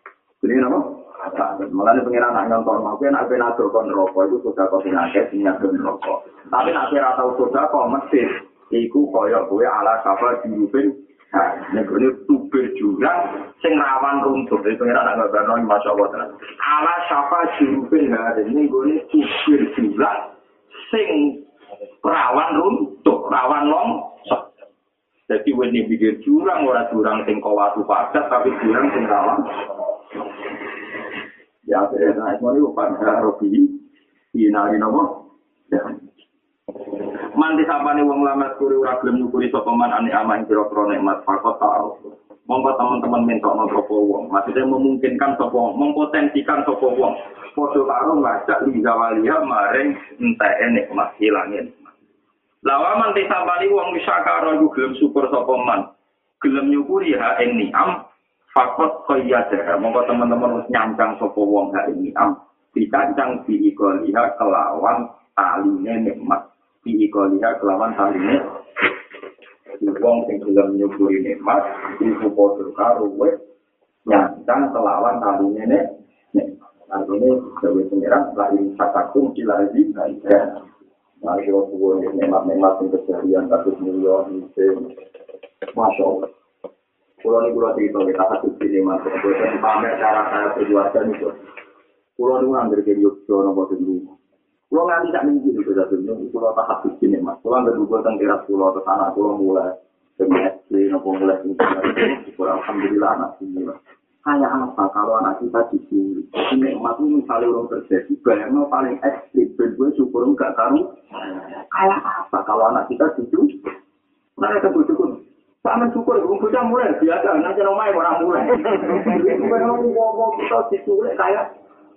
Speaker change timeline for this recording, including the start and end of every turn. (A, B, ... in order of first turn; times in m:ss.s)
0:00.4-0:20.3 A
0:20.8-0:21.4 A
0:22.0-0:24.4 A
0:25.3-0:29.4 A
0:31.7-0:33.8 A
0:34.3-0:36.0 A
0:37.4-0:51.9 A
0:52.6-0:55.9 A
0:56.4-1:08.4 A
1:09.8-1:13.4 A
1:14.0-1:20.6 A
1:21.2-1:24.9 A
1:25.7-1:26.3 A
1:27.2-1:31.4 A
1:32.2-1:34.2 A
1:34.7-1:50.9 A
1:51.7-1:53.5 A
1:54.4-2:01.4 A